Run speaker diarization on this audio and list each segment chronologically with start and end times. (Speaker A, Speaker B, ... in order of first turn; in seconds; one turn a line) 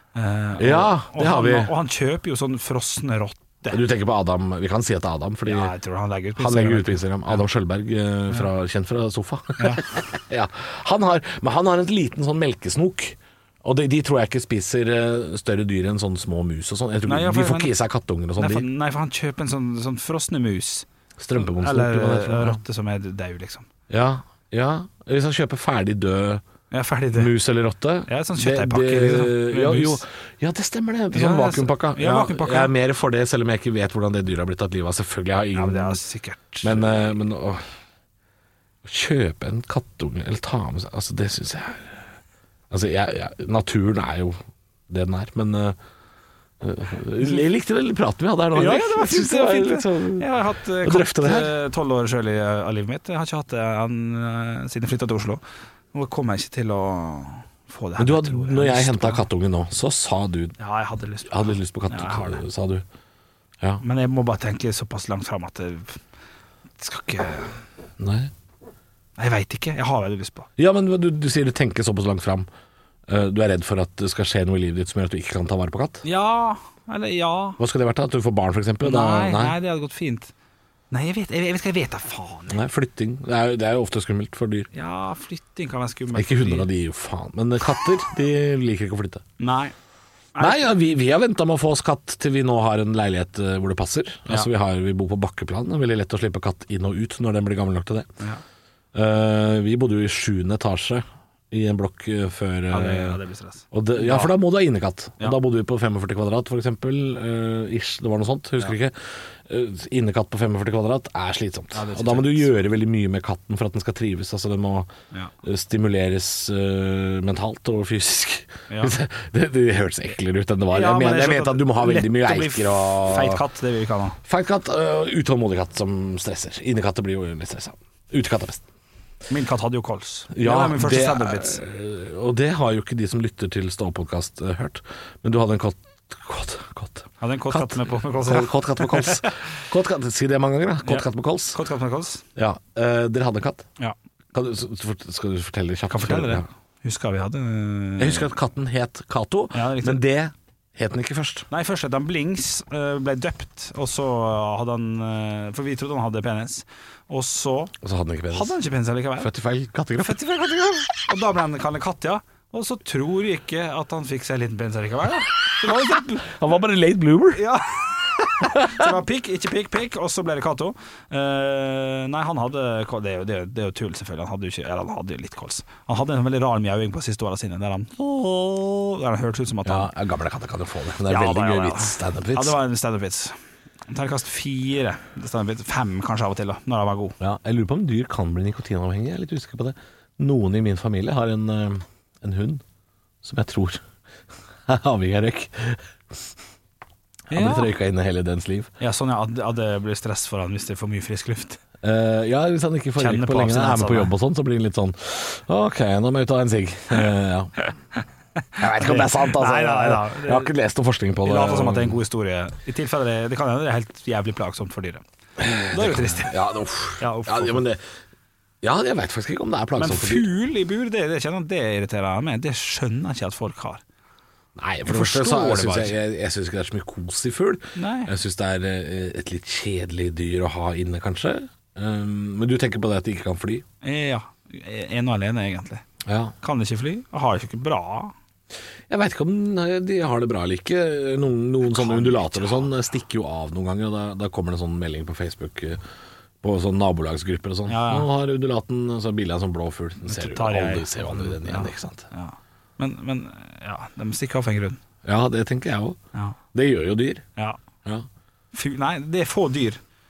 Speaker A: 0.1-3.8
Speaker B: 0.6-1.7
Speaker B: 3.7-5.7
Speaker A: 5.4-7.4
Speaker B: 6.4-18.6
Speaker A: 9.6-9.8
Speaker A: 17.0-17.7
Speaker A: 18.4-23.7
Speaker B: 21.2-22.6
Speaker B: 23.9-26.4
Speaker A: 26.7-27.3
Speaker B: 27.1-36.0
Speaker A: 28.1-30.0
Speaker A: 31.1-32.7
Speaker A: 35.5-37.0
Speaker B: 36.6-37.6
Speaker B: 38.8-42.0
Speaker B: 42.7-44.4
Speaker B: 44.9-45.8
Speaker B: 46.6-51.5
Speaker A: 48.5-55.4
Speaker A: 55.9-59.2
Speaker B: 58.0-60.6
Speaker A: 60.6-62.4
Speaker B: 61.3-62.8
Speaker A: 63.8-66.0
Speaker A: 66.8-67.6
Speaker B: 68.0-68.3
Speaker A: 69.2-70.5
Speaker B: 70.6-72.5
Speaker B: 73.1-76.0
Speaker A: 76.0-77.6
Speaker B: 77.6-79.5
Speaker A: 78.8-80.3
Speaker A: 80.9-82.6
Speaker B: 82.5-84.7
Speaker A: 84.7-86.7
Speaker B: 86.1-89.2
Speaker A: 89.4-89.7
Speaker A: 90.3-90.7
Speaker B: 90.4-98.1
Speaker B: 98.9-103.2
Speaker A: 102.7-104.3
Speaker B: 103.7-114.9
Speaker A: 111.7-112.5
Speaker B: 115.4-123.4
Speaker A: 118.7-119.0
Speaker A: 120.7-124.2
Speaker B: 124.2-128.6
Speaker A: 129.3-131.6
Speaker B: 130.3-141.6
Speaker A: 137.2-139.3
Speaker A: 140.8-142.2
Speaker B: 142.3-143.7
Speaker B: 144.3-146.4
Speaker A: 145.9-148.3
Speaker B: 148.0-151.5
Speaker A: 149.5-150.0
Speaker A: 151.5-157.7
Speaker B: 157.8-158.5
Speaker A: 158.3-159.3
Speaker B: 159.2-160.2
Speaker A: 160.0-166.3
Speaker B: 165.6-167.4
Speaker A: 167.3-179.9
Speaker B: 168.4-169.0
Speaker B: 179.6-182.6
Speaker A: 181.1-183.4
Speaker A: 183.9-187.2
Speaker B: 187.2-192.6
Speaker B: 193.2-193.8
Speaker B: 194.7-196.2
Speaker A: 197.3-197.7
Speaker B: 197.3-198.7
Speaker A: 198.8-201.6
Speaker B: 201.8-207.5
Speaker A: 203.0-204.1
Speaker B: 208.6-212.0
Speaker A: 208.7-210.5
Speaker A: 211.2-215.0
Speaker B: 215.4-217.8
Speaker A: 215.7-216.3
Speaker A: 217.0-217.6
Speaker B: 218.6-220.3
Speaker A: 219.8-223.8
Speaker B: 224.6-233.6
Speaker A: 224.8-225.9
Speaker A: 227.8-228.1
Speaker A: 233.8-235.8
Speaker B: 236.1-236.3
Speaker A: 236.4-238.1
Speaker B: 238.9-245.8
Speaker A: 241.6-242.7
Speaker B: 246.4-252.1
Speaker A: 247.7-248.1
Speaker A: 250.0-254.8
Speaker B: 255.0-256.0
Speaker B: 256.5-257.2
Speaker A: 258.5-259.8